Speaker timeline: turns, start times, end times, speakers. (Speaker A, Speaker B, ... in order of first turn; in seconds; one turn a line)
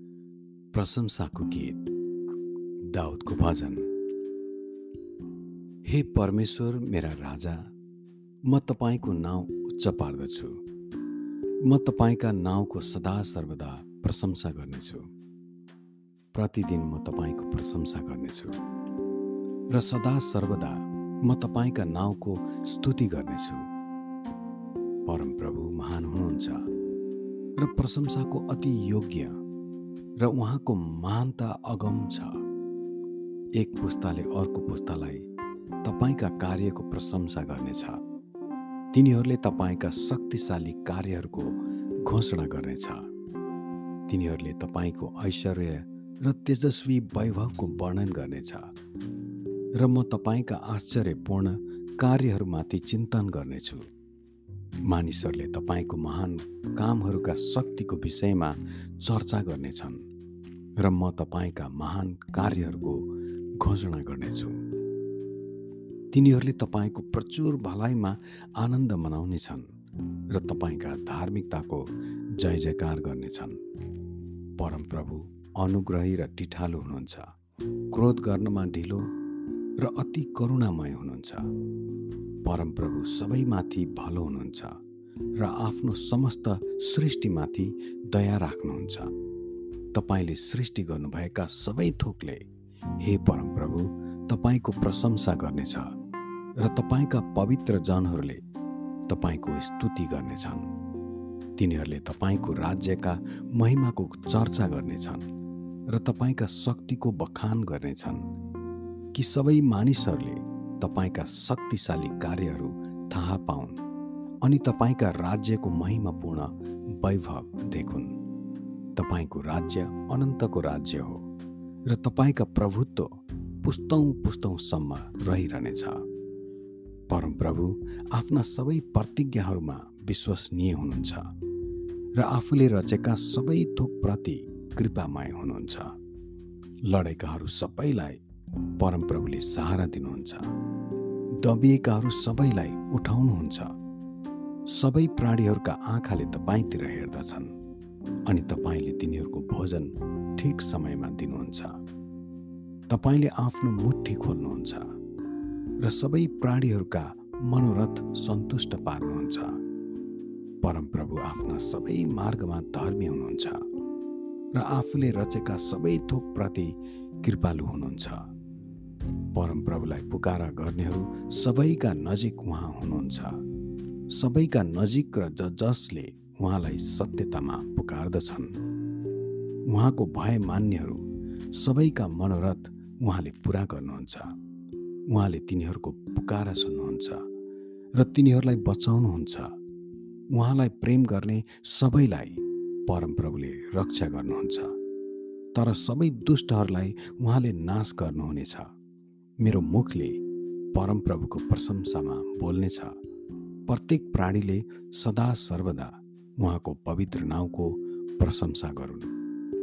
Speaker A: 0.7-1.9
Speaker A: 2.8-3.9
Speaker A: 5.8-7.7
Speaker A: 8.4-10.6
Speaker A: 11.6-15.1
Speaker A: 16.3-18.6
Speaker A: 19.7-23.7
Speaker A: 25.1-26.6
Speaker A: 27.6-29.4
Speaker A: 30.2-32.4
Speaker A: 33.5-35.2
Speaker A: 35.8-38.0
Speaker A: 38.9-43.0
Speaker A: 44.1-48.7
Speaker A: 49.8-53.9
Speaker A: 54.9-60.0
Speaker A: 60.8-63.1
Speaker A: 63.6-64.6
Speaker A: 66.1-69.7
Speaker A: 70.3-71.8
Speaker A: 72.4-73.6
Speaker A: 74.6-77.3
Speaker A: 77.9-79.1
Speaker A: 79.8-81.5
Speaker A: 82.4-84.8
Speaker A: 85.4-89.1
Speaker A: 89.9-92.5
Speaker A: 93.0-95.9
Speaker A: 96.6-98.4
Speaker A: 99.1-100.7
Speaker A: 101.6-105.3
Speaker A: 105.9-108.3
Speaker A: 109.1-113.8
Speaker A: 114.4-118.2
Speaker A: 118.9-121.2
Speaker A: 121.9-126.0
Speaker A: 127.1-131.3
Speaker A: 132.2-135.9
Speaker A: 136.9-138.2
Speaker A: 138.8-140.5
Speaker A: 141.4-143.7
Speaker A: 144.7-147.5
Speaker A: 148.3-151.8
Speaker A: 152.9-154.9
Speaker A: 155.8-159.6
Speaker A: 160.6-163.6
Speaker A: 164.5-168.2
Speaker A: 169.3-173.4
Speaker A: 174.1-178.6
Speaker A: 179.7-184.3
Speaker A: 185.1-187.2
Speaker A: 187.9-189.5
Speaker A: 190.3-194.7
Speaker A: 195.5-198.7
Speaker A: 199.4-200.2
Speaker A: 200.7-202.9
Speaker A: 203.7-209.1